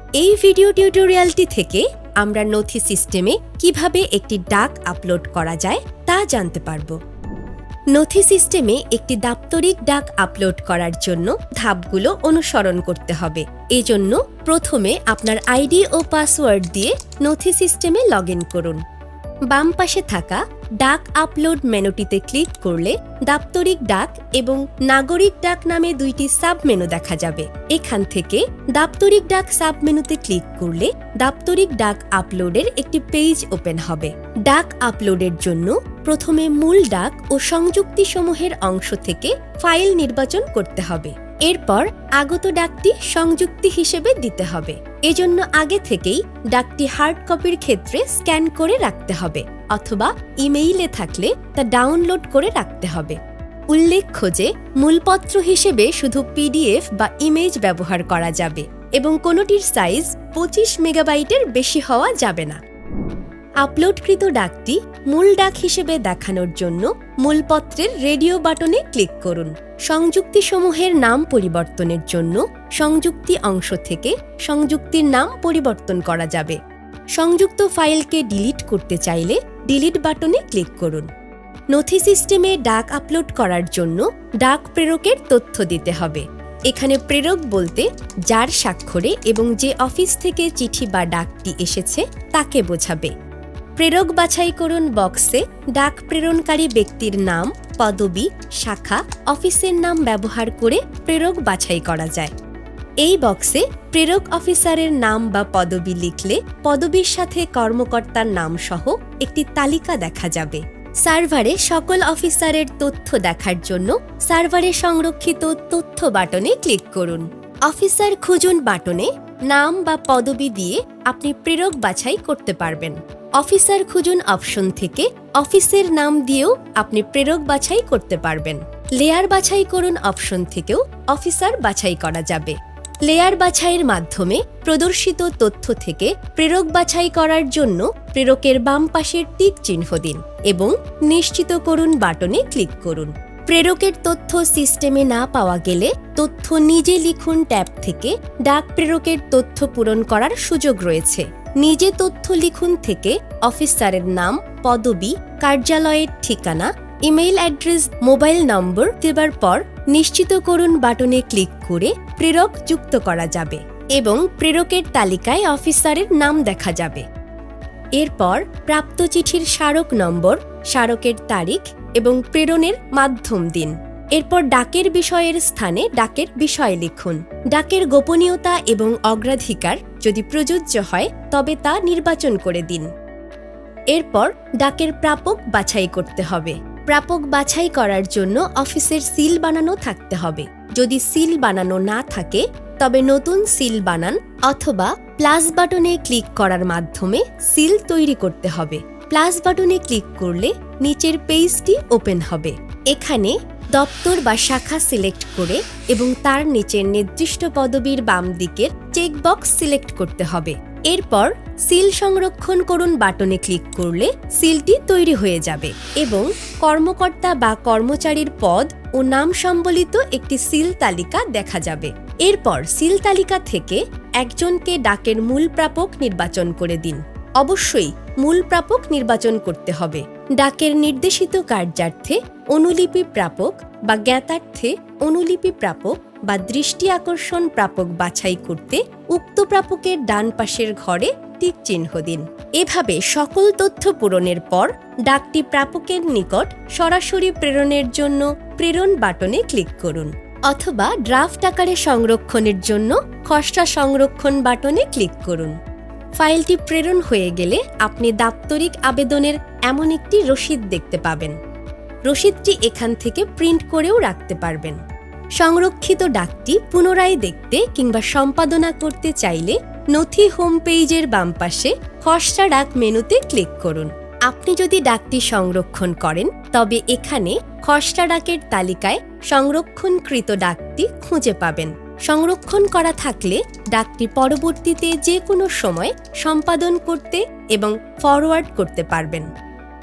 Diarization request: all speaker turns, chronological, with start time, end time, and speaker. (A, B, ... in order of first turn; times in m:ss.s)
0:00.2-0:07.0 A
0:07.9-0:18.8 A
0:19.5-1:02.6 A
1:03.6-1:16.6 A
1:17.2-1:21.1 A
1:21.7-1:33.1 A
1:33.8-1:42.3 A
1:43.0-2:47.0 A
2:48.0-3:02.9 A
3:03.9-4:15.6 A
4:16.2-4:21.4 A
4:22.0-4:24.8 A
4:25.4-4:49.3 A